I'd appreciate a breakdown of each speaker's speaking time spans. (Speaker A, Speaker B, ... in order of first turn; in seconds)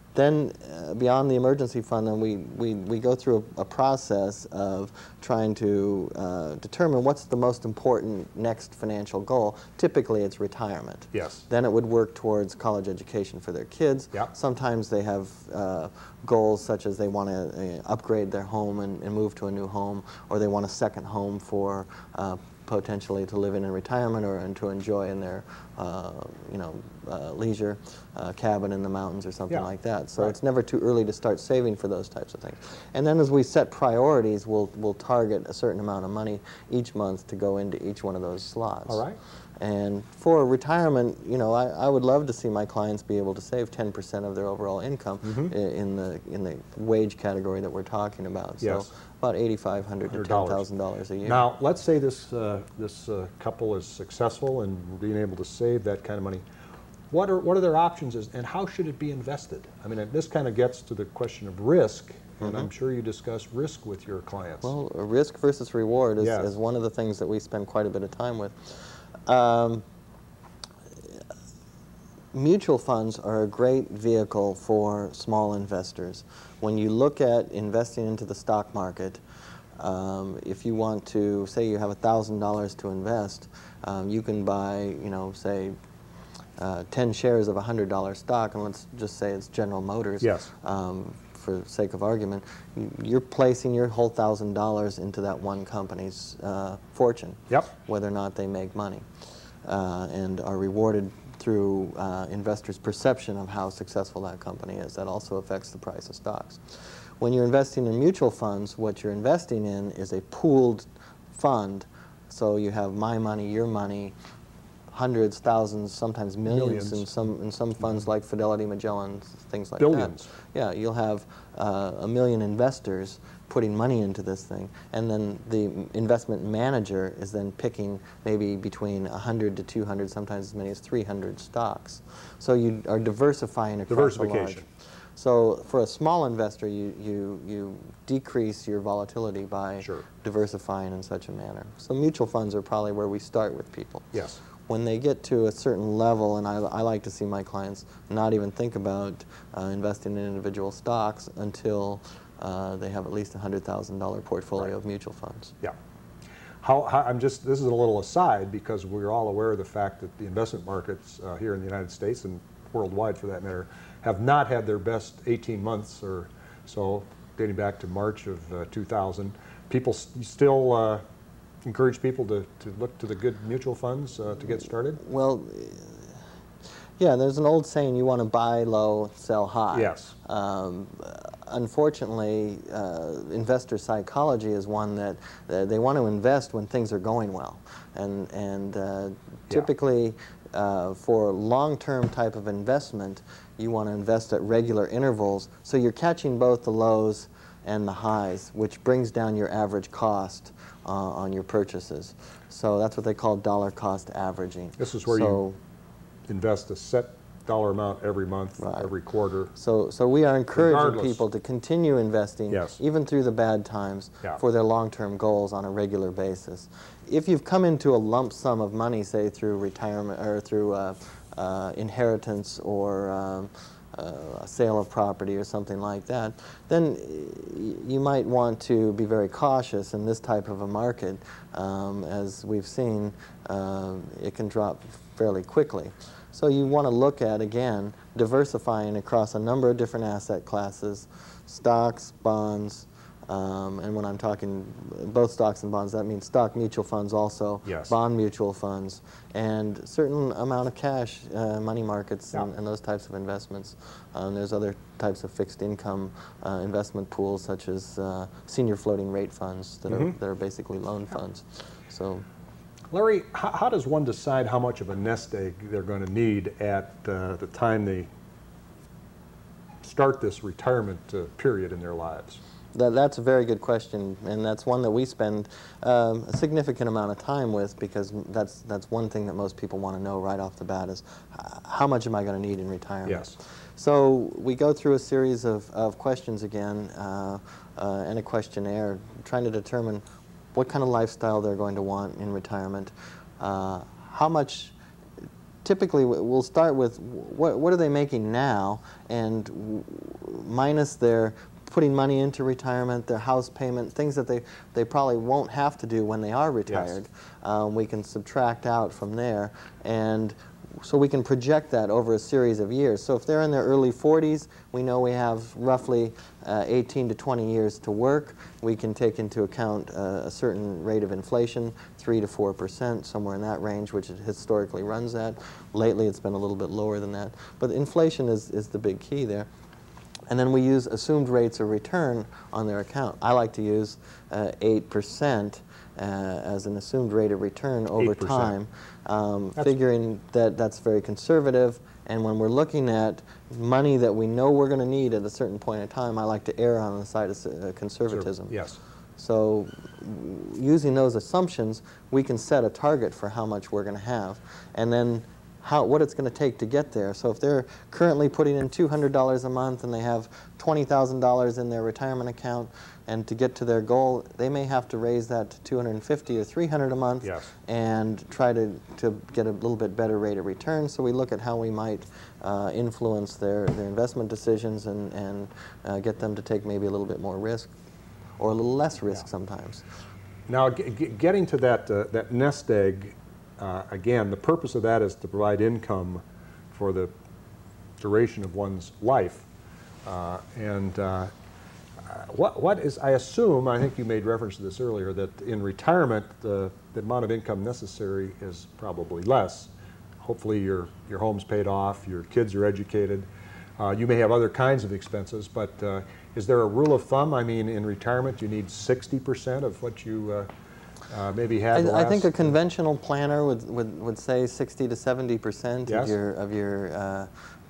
Speaker A: 0.1-39.0, 39.6-51.5, 62.4-62.7, 64.6-69.8, 72.3-79.2, 79.8-85.8, 86.6-99.0, 99.6-114.2, 114.9-144.2, 144.7-155.5, 175.0-176.2, 177.0-205.6, 208.6-208.9, 209.6-262.3, 272.7-294.8, 295.6-329.5, 330.3-348.6, 349.2-377.7, 378.4-379.9, 411.7-417.3
Speaker B: 11.1-11.5, 38.9-39.2, 45.2-45.5, 48.6-48.9, 50.1-50.7, 51.3-56.4, 57.1-64.7, 66.2-66.5, 90.2-90.5, 116.5-117.1, 119.8-120.3, 133.9-134.6, 144.1-144.4, 156.6-171.0, 171.6-175.0, 179.7-180.1, 204.8-205.4, 206.3-209.5, 210.5-211.2, 212.5-212.8, 247.7-247.9, 259.9-260.1, 262.9-268.1, 269.8-272.4, 283.1-283.4, 306.7-306.9, 338.0-338.5, 348.1-348.8, 367.2-367.5, 380.5-387.1, 388.0-389.5, 390.1-391.3, 392.0-410.5, 411.1-412.5, 415.9-416.1